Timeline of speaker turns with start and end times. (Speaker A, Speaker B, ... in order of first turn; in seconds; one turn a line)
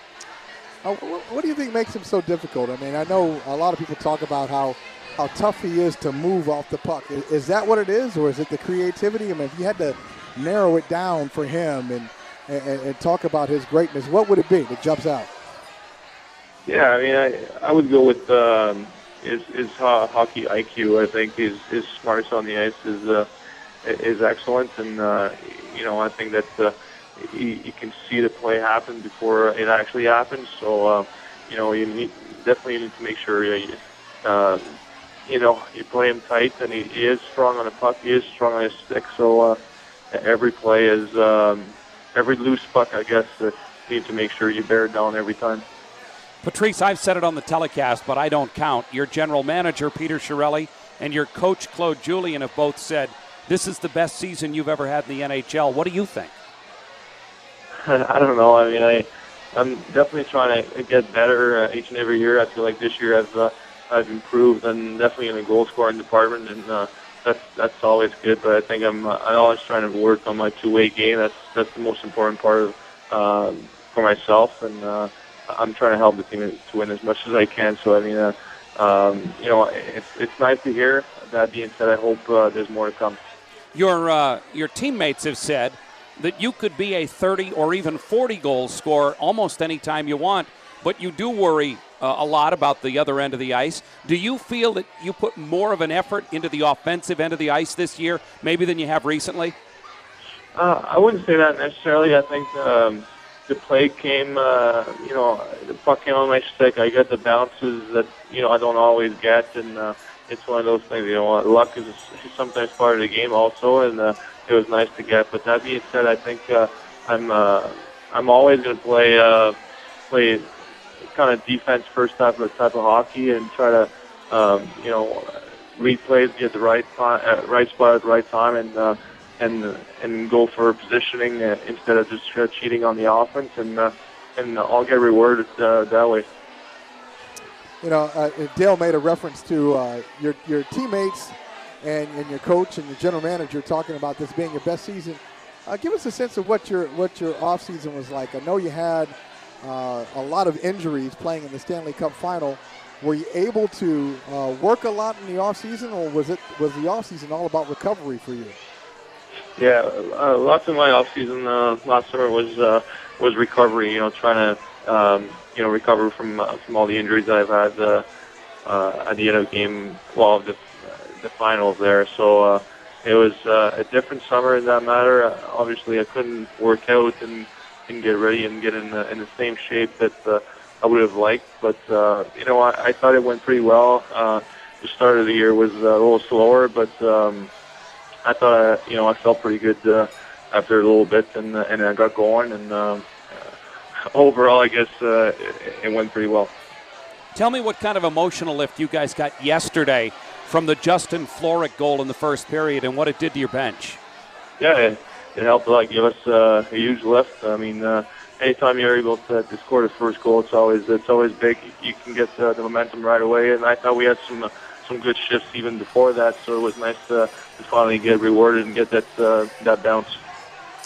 Speaker A: 0.8-15.3
Speaker B: 16.6-23.3
Speaker B: 23.8-34.6
Speaker B: 35.2-39.6
Speaker B: 40.1-45.6
Speaker C: 46.4-56.3
Speaker B: 57.8-83.2
Speaker C: 83.7-99.5
Speaker B: 100.5-119.5
Speaker B: 120.1-120.5
Speaker B: 121.1-136.2
Speaker A: 137.8-158.6
Speaker B: 159.6-168.0
Speaker B: 168.6-187.5
Speaker B: 188.2-193.5
Speaker B: 194.1-196.5
Speaker C: 197.3-204.0
Speaker B: 204.6-220.2